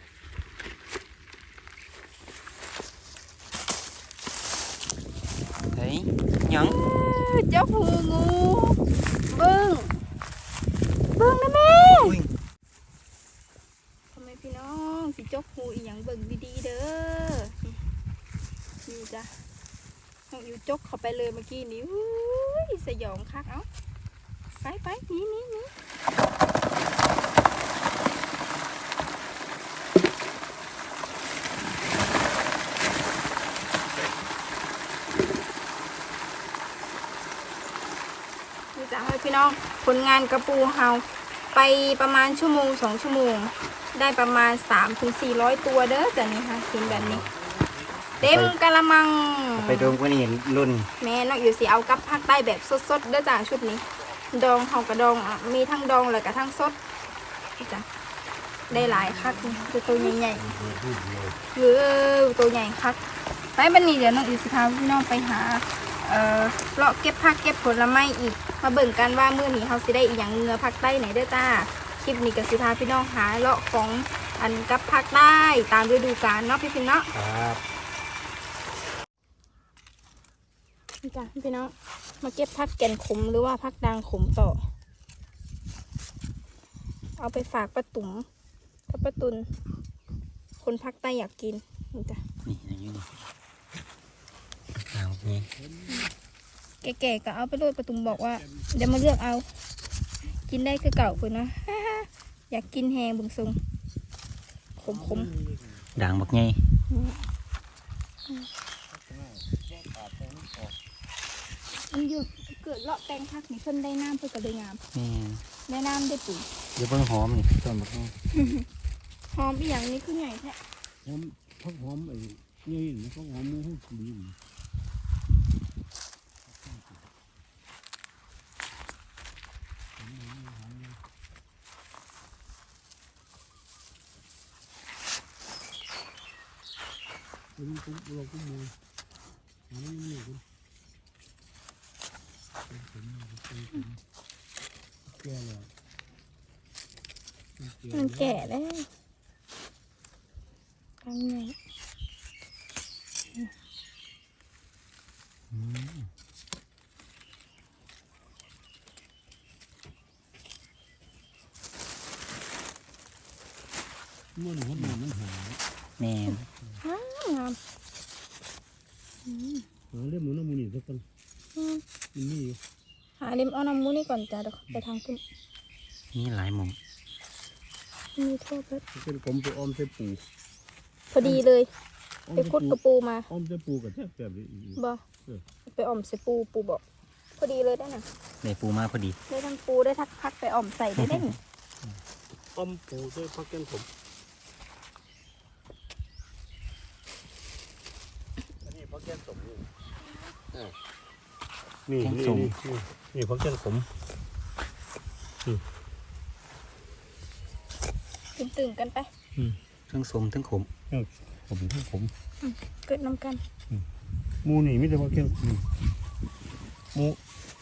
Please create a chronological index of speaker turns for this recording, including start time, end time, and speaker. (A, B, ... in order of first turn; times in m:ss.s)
0:05.7-0:06.8 A
0:06.6-0:10.0 B
0:11.1-0:12.2 B
0:11.9-0:12.3 A
0:14.1-0:17.8 B
0:18.8-0:19.3 B
0:20.3-0:23.7 B
0:24.5-0:25.7 B
0:38.7-0:41.0 B
0:41.5-0:47.2 B
0:46.8-0:47.3 A
0:48.2-0:48.5 A
0:48.2-0:50.0 B
0:49.6-0:50.9 A
0:51.0-0:56.8 B
0:57.6-0:57.8 B
0:58.7-1:00.5 B
1:00.4-1:01.4 C
1:01.5-1:03.0 B
1:03.6-1:17.1 B
1:17.1-1:17.6 A
1:21.0-1:24.6 B
1:27.2-1:28.3 B
1:28.9-1:29.5 B
1:30.6-1:32.2 B
1:32.4-1:33.1 A
1:34.8-1:35.5 A
1:35.6-1:36.1 C
1:36.8-1:39.4 B
1:40.5-1:43.6 B
1:44.8-1:45.3 B
1:44.8-1:45.9 C
1:46.0-1:46.6 A
1:46.9-1:47.2 B
1:48.9-1:50.7 C
1:51.9-1:54.8 B
1:54.9-1:55.4 A
1:55.7-1:56.5 B
1:56.8-1:58.1 A
1:58.3-1:58.6 B
1:59.3-2:00.6 B
2:01.0-2:04.4 C
2:06.6-2:07.0 C
2:10.0-2:11.0 C
2:17.6-2:18.7 C
2:19.7-2:20.4 C
2:22.7-2:23.9 C
2:25.2-2:25.7 C
2:27.6-2:28.4 C
2:27.9-2:28.9 B
2:31.0-2:31.5 B
2:35.5-2:36.1 A
2:44.4-2:45.6 C
2:46.0-2:46.4 A
2:46.3-2:47.6 B
2:49.2-2:49.6 B
2:49.9-2:51.0 C
2:51.6-2:51.8 B
2:52.1-2:52.6 C
2:53.2-2:55.2 B
2:56.1-2:56.8 A
2:58.2-2:58.8 B
2:58.9-3:00.2 C
3:01.1-3:01.7 B
3:02.3-3:02.8 C
3:02.4-3:03.3 B
3:03.3-3:05.4 C
3:05.7-3:06.8 B
3:07.4-3:08.0 B
3:08.4-3:09.2 A
3:09.3-3:11.4 B
3:12.5-3:13.9 C
3:18.6-3:19.6 C
3:21.9-3:23.9 C
3:22.0-3:22.5 A
3:28.4-3:29.1 B
3:29.9-3:30.7 A
3:30.9-3:32.1 C
3:32.4-3:33.4 B
3:34.4-3:35.6 C
3:36.9-3:37.2 C